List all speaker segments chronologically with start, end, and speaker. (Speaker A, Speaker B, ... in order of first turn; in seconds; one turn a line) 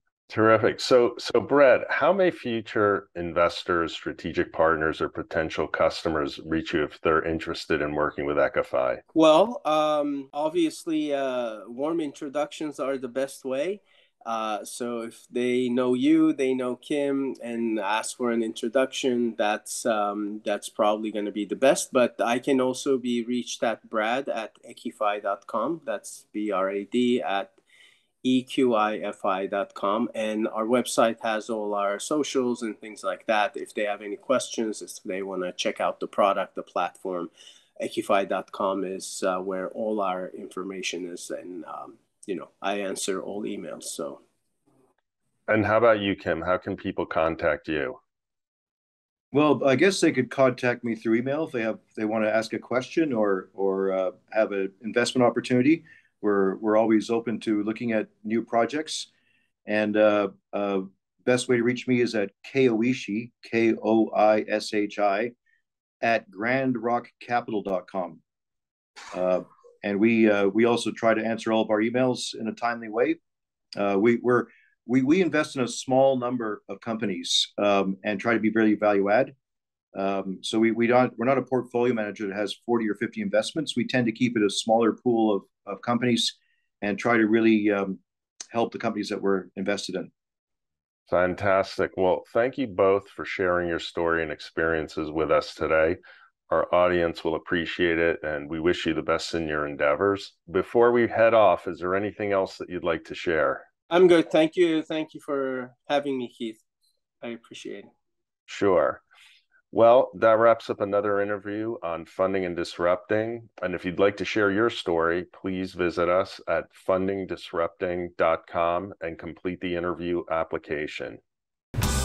Speaker A: 0.3-9.0
Speaker B: 9.1-27.6
Speaker B: 28.2-44.2
Speaker A: 45.5-48.0
Speaker C: 49.3-59.1
Speaker C: 59.7-65.3
Speaker C: 66.0-68.2
Speaker C: 69.1-73.2
Speaker C: 73.8-79.3
Speaker C: 79.9-88.0
Speaker C: 88.5-90.1
Speaker A: 91.1-103.7
Speaker B: 103.9-106.6
Speaker B: 107.2-107.9
Speaker A: 108.5-109.0
Speaker A: 109.7-121.2